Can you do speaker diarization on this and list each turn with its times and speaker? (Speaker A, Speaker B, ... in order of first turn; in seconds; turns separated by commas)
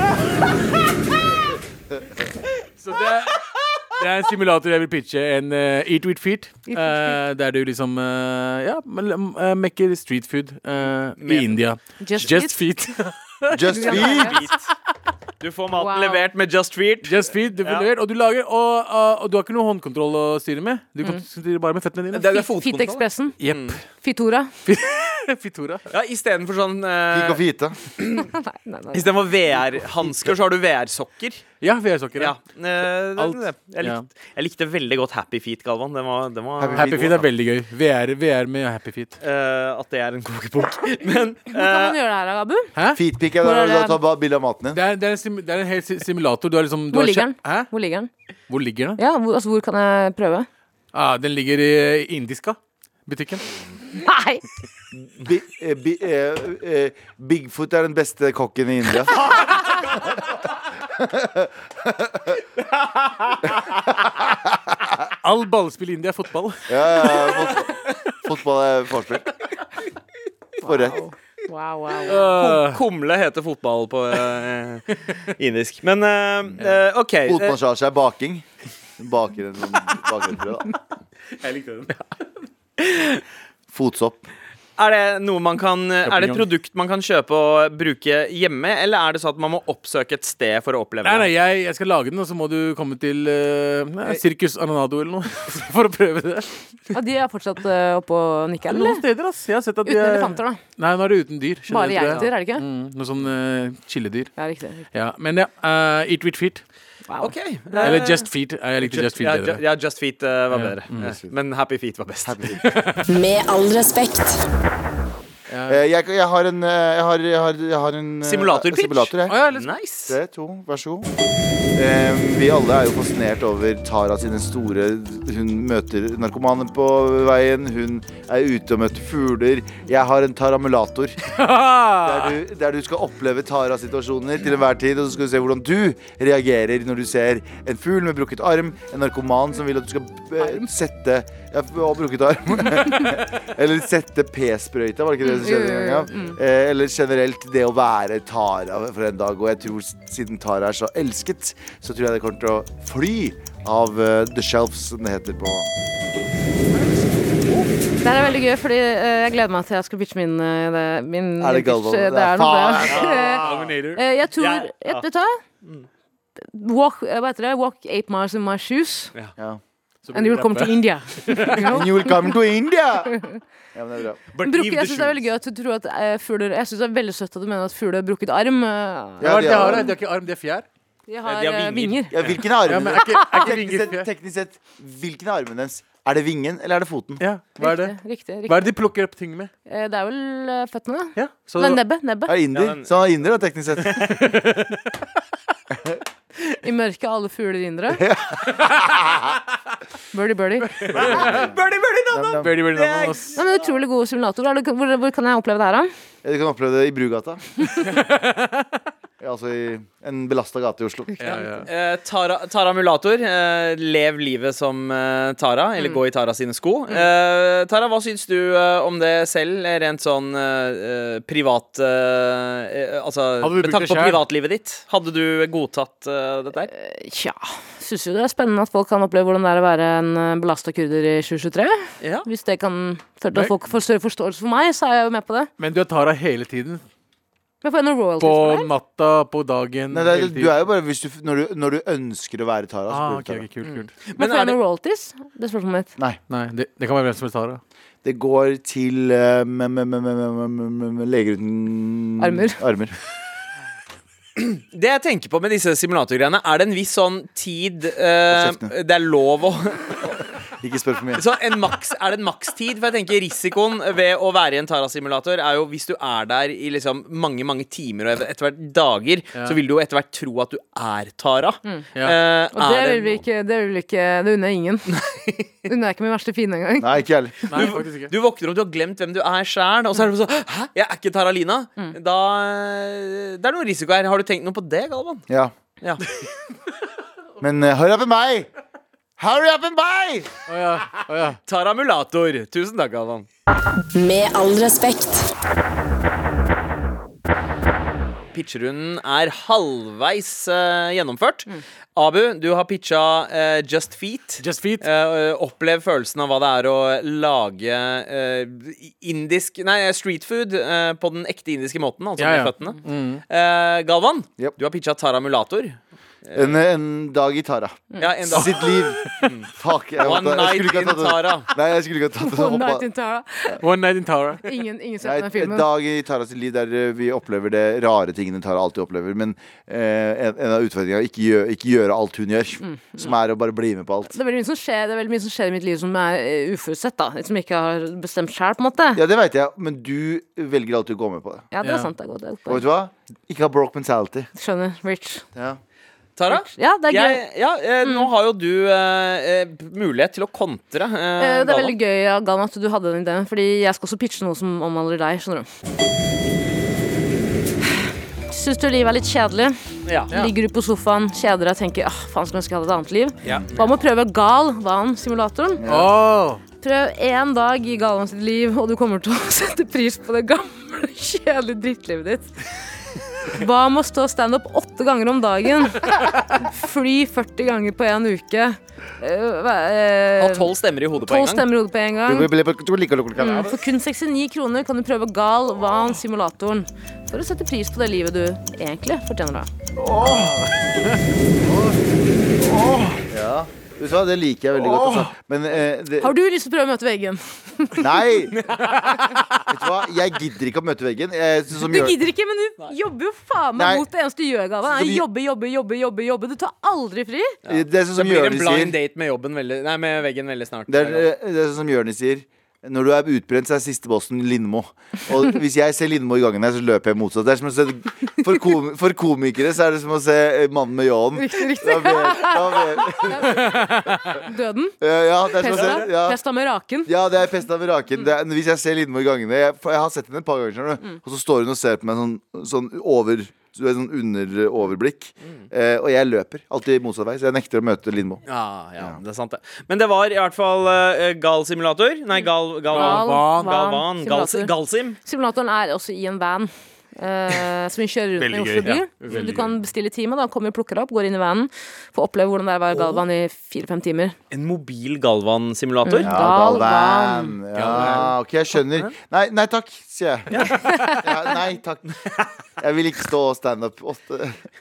Speaker A: 2.8-13.1, Speaker B: 6.7-7.2, Speaker C: 11.2-11.6, Speaker B: 12.0-12.9, Speaker C: 13.5-14.7, Speaker D: 13.5-14.4, Speaker B: 13.7-14.4, Speaker C: 15.4-17.9, Speaker B: 15.8-16.3, Speaker A: 17.0-22.3, Speaker C: 22.1-23.8, Speaker B: 22.3-23.4, Speaker A: 23.4-23.8, Speaker B: 24.0-24.5, Speaker A: 24.6-25.8, Speaker C: 25.9-27.4, Speaker D: 27.1-27.8, Speaker B: 28.2-29.1, Speaker C: 28.9-31.5, Speaker A: 31.6-32.4, Speaker C: 32.1-37.0, Speaker A: 33.2-34.0, Speaker D: 36.6-37.2, Speaker A: 36.7-39.1, Speaker C: 39.2-42.0, Speaker B: 41.5-42.7, Speaker A: 42.8-43.0, Speaker D: 42.9-44.8, Speaker B: 43.4-44.0, Speaker A: 44.7-47.7, Speaker B: 46.9-48.1, Speaker A: 48.5-49.0, Speaker B: 49.0-50.5, Speaker A: 50.9-53.4, Speaker B: 53.9-54.4, Speaker D: 54.9-59.4, Speaker D: 60.9-62.4, Speaker C: 62.6-63.6, Speaker A: 65.2-67.3, Speaker D: 66.7-69.3, Speaker B: 70.6-72.2, Speaker D: 70.6-71.0, Speaker A: 72.0-72.8, Speaker C: 72.2-77.6, Speaker D: 77.2-78.5, Speaker D: 79.0-80.8, Speaker A: 81.3-82.0, Speaker C: 82.8-83.2, Speaker D: 83.7-84.3, Speaker C: 84.8-91.3, Speaker A: 86.0-86.5, Speaker A: 91.0-96.5, Speaker B: 96.9-99.0, Speaker A: 98.7-104.3, Speaker B: 99.8-100.6, Speaker B: 101.7-102.6, Speaker B: 104.4-104.9, Speaker A: 104.9-106.6, Speaker B: 107.1-108.1, Speaker C: 107.2-108.3, Speaker A: 107.8-109.6, Speaker C: 108.8-112.6, Speaker A: 110.5-111.1, Speaker D: 112.2-112.6, Speaker A: 112.6-113.0, Speaker E: 113.0-114.5, Speaker A: 115.5-115.8, Speaker D: 115.7-119.4, Speaker C: 118.2-120.1, Speaker A: 119.3-119.7, Speaker D: 120.1-121.1, Speaker D: 121.8-131.2, Speaker A: 131.3-132.4, Speaker D: 132.0-155.7, Speaker B: 145.2-146.4, Speaker B: 158.0-163.4, Speaker D: 161.4-163.3, Speaker C: 162.9-163.8, Speaker A: 163.4-164.0, Speaker B: 163.9-165.4, Speaker C: 164.4-165.0, Speaker B: 166.4-169.1, Speaker A: 170.1-171.8, Speaker B: 170.1-172.1, Speaker D: 171.6-173.2, Speaker B: 173.1-173.4, Speaker D: 173.7-174.2, Speaker C: 174.3-175.2, Speaker B: 174.4-179.9, Speaker D: 179.2-179.9, Speaker A: 179.2-180.7, Speaker B: 181.1-182.1, Speaker C: 181.2-182.0, Speaker D: 182.1-187.2, Speaker A: 182.6-184.1, Speaker B: 182.9-183.4, Speaker A: 187.2-189.5, Speaker B: 187.6-188.8, Speaker B: 189.7-192.3, Speaker A: 191.2-191.8, Speaker D: 192.3-194.1, Speaker C: 192.5-192.9, Speaker C: 193.8-194.3, Speaker A: 194.2-195.0, Speaker B: 196.6-198.0, Speaker D: 198.0-199.4, Speaker B: 200.1-200.8, Speaker A: 200.8-201.5, Speaker C: 200.8-203.4, Speaker D: 200.9-201.5, Speaker D: 202.1-202.6, Speaker A: 202.4-203.3, Speaker B: 203.3-205.9, Speaker D: 206.2-207.7, Speaker A: 207.8-208.7, Speaker D: 209.2-211.2, Speaker B: 211.2-211.6, Speaker A: 211.2-211.7, Speaker C: 211.7-226.7, Speaker A: 223.4-224.2, Speaker B: 226.7-235.5, Speaker C: 232.0-232.3, Speaker A: 235.6-236.8, Speaker B: 237.6-238.7, Speaker A: 238.2-240.5, Speaker D: 239.9-243.5, Speaker A: 242.9-243.9, Speaker C: 244.0-244.6, Speaker B: 244.2-245.9, Speaker A: 246.3-247.6, Speaker D: 248.0-252.9, Speaker B: 252.2-252.6, Speaker C: 254.3-260.2, Speaker D: 258.3-258.7, Speaker D: 260.6-261.2, Speaker C: 261.2-273.2, Speaker B: 272.5-275.0, Speaker B: 275.6-277.0, Speaker D: 276.8-277.4, Speaker A: 277.5-278.1, Speaker C: 277.5-285.3, Speaker D: 287.4-288.5, Speaker D: 289.2-290.3, Speaker A: 290.5-291.4, Speaker C: 291.5-293.3, Speaker E: 293.9-295.3, Speaker C: 298.3-316.6, Speaker A: 304.4-304.8, Speaker A: 312.2-313.2, Speaker D: 316.3-322.9, Speaker C: 318.0-319.5, Speaker C: 320.0-321.5, Speaker B: 322.2-323.6, Speaker A: 323.6-324.5, Speaker B: 324.4-325.7, Speaker D: 325.0-334.1, Speaker B: 332.6-333.1, Speaker B: 334.1-339.0, Speaker D: 338.9-341.5, Speaker B: 341.5-342.6, Speaker A: 341.6-341.9, Speaker D: 342.5-344.3, Speaker B: 344.3-345.2, Speaker C: 346.2-351.8, Speaker B: 346.3-347.2, Speaker B: 347.8-348.1, Speaker B: 351.2-355.5, Speaker B: 358.3-359.6, Speaker C: 359.9-360.1, Speaker B: 360.1-365.6, Speaker C: 363.3-363.7, Speaker D: 365.6-365.9, Speaker A: 365.7-366.4, Speaker B: 366.6-382.3, Speaker C: 380.2-381.5, Speaker D: 382.1-383.7, Speaker B: 383.2-389.5, Speaker D: 389.8-390.5, Speaker D: 392.4-396.1, Speaker B: 396.0-398.1, Speaker D: 397.8-398.3, Speaker C: 398.3-399.4, Speaker D: 399.5-402.0, Speaker B: 401.6-407.4, Speaker D: 403.6-403.8, Speaker D: 404.7-405.0, Speaker C: 407.4-411.1, Speaker D: 407.5-408.8, Speaker D: 410.7-423.5, Speaker B: 421.2-426.9, Speaker A: 423.4-424.2, Speaker D: 424.8-426.2, Speaker D: 426.9-438.2, Speaker C: 438.2-445.0, Speaker A: 442.7-443.5, Speaker B: 442.7-444.5, Speaker B: 445.0-454.1, Speaker A: 448.2-449.5, Speaker C: 452.7-453.0, Speaker C: 454.3-456.4, Speaker B: 455.8-457.4, Speaker D: 456.0-461.9, Speaker A: 457.5-458.1, Speaker C: 460.3-460.6, Speaker B: 460.6-461.0, Speaker C: 462.0-462.3, Speaker D: 462.6-464.4